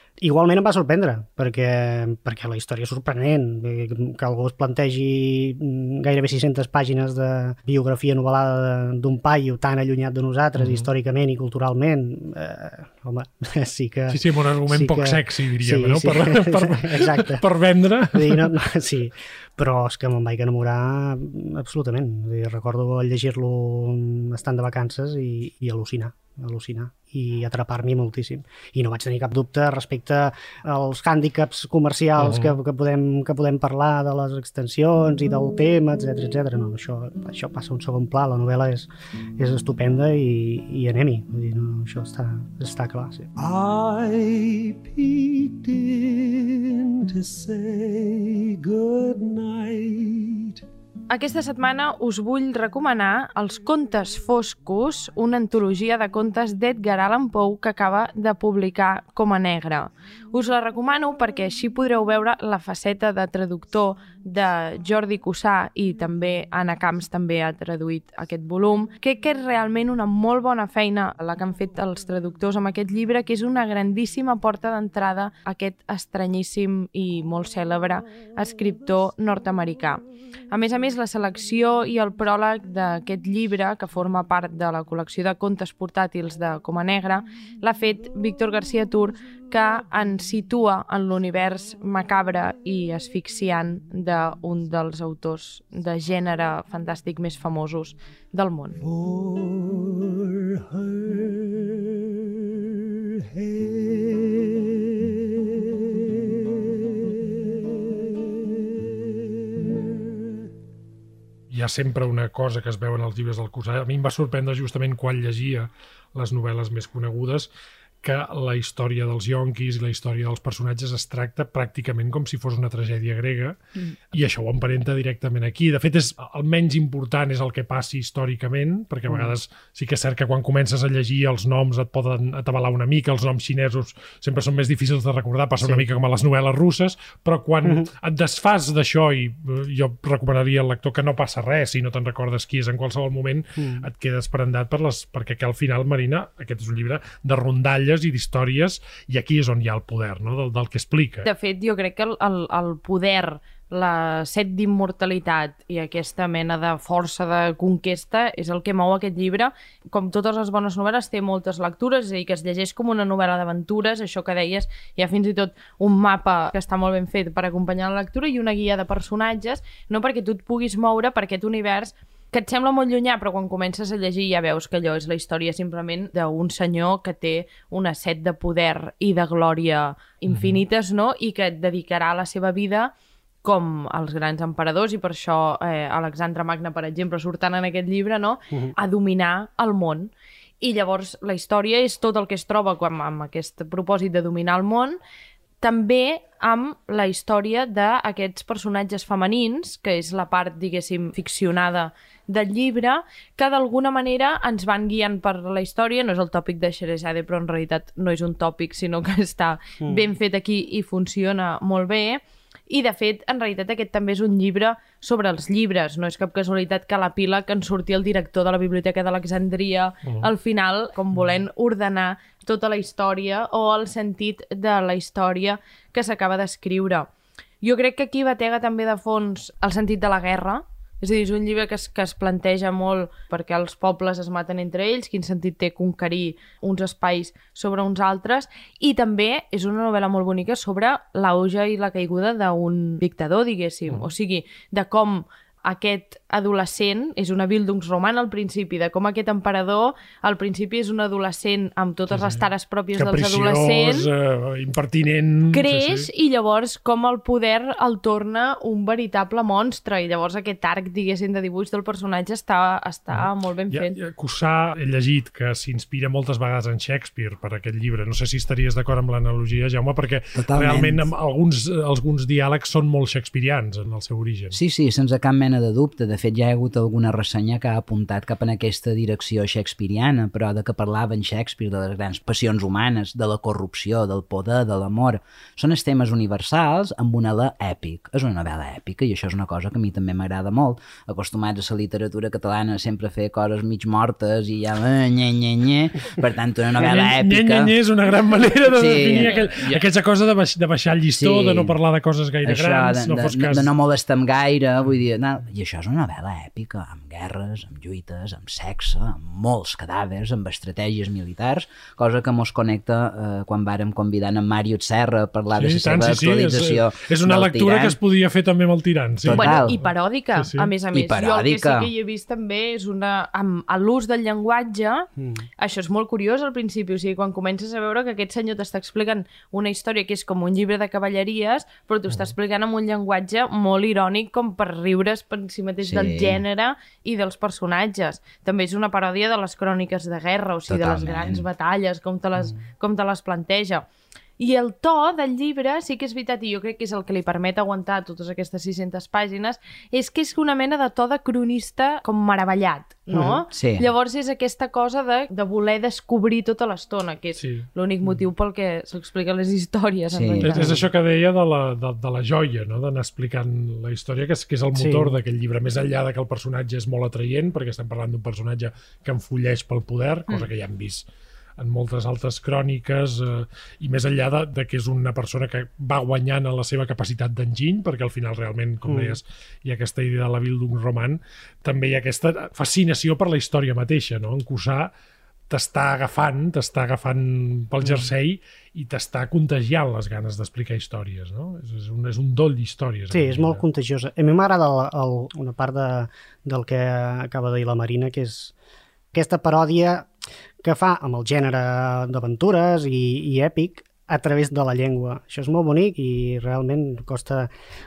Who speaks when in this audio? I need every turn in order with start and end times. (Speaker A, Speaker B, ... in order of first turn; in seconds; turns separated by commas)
Speaker A: 0.2-17.4, Speaker B: 10.6-10.9, Speaker B: 14.1-18.5, Speaker A: 18.1-43.3, Speaker B: 32.2-32.6, Speaker C: 43.4-50.6, Speaker D: 51.1-98.8, Speaker C: 98.8-110.4, Speaker B: 111.5-117.5, Speaker B: 118.0-123.6, Speaker B: 124.1-151.3, Speaker A: 137.6-137.9, Speaker A: 143.6-143.8, Speaker D: 151.2-182.9, Speaker B: 180.3-180.6, Speaker D: 183.4-195.0, Speaker D: 195.6-227.1, Speaker D: 227.6-254.1, Speaker B: 252.1-256.1, Speaker D: 255.5-264.0, Speaker B: 263.1-274.6, Speaker E: 270.3-271.0, Speaker E: 274.5-297.7, Speaker B: 296.8-303.7, Speaker E: 298.6-299.8, Speaker E: 301.1-301.7, Speaker E: 302.4-318.0, Speaker B: 315.6-320.7, Speaker E: 319.2-319.7, Speaker D: 319.3-343.8, Speaker E: 320.9-321.9, Speaker E: 335.8-336.4, Speaker E: 340.7-341.4, Speaker D: 344.4-360.8, Speaker A: 353.1-353.4, Speaker E: 353.5-353.9, Speaker B: 357.4-357.7, Speaker E: 360.1-360.6, Speaker B: 360.4-371.0, Speaker A: 364.7-365.2, Speaker B: 371.6-384.9, Speaker A: 378.9-379.2, Speaker B: 385.5-393.6, Speaker A: 393.1-398.5, Speaker A: 399.1-400.1, Speaker A: 400.6-407.5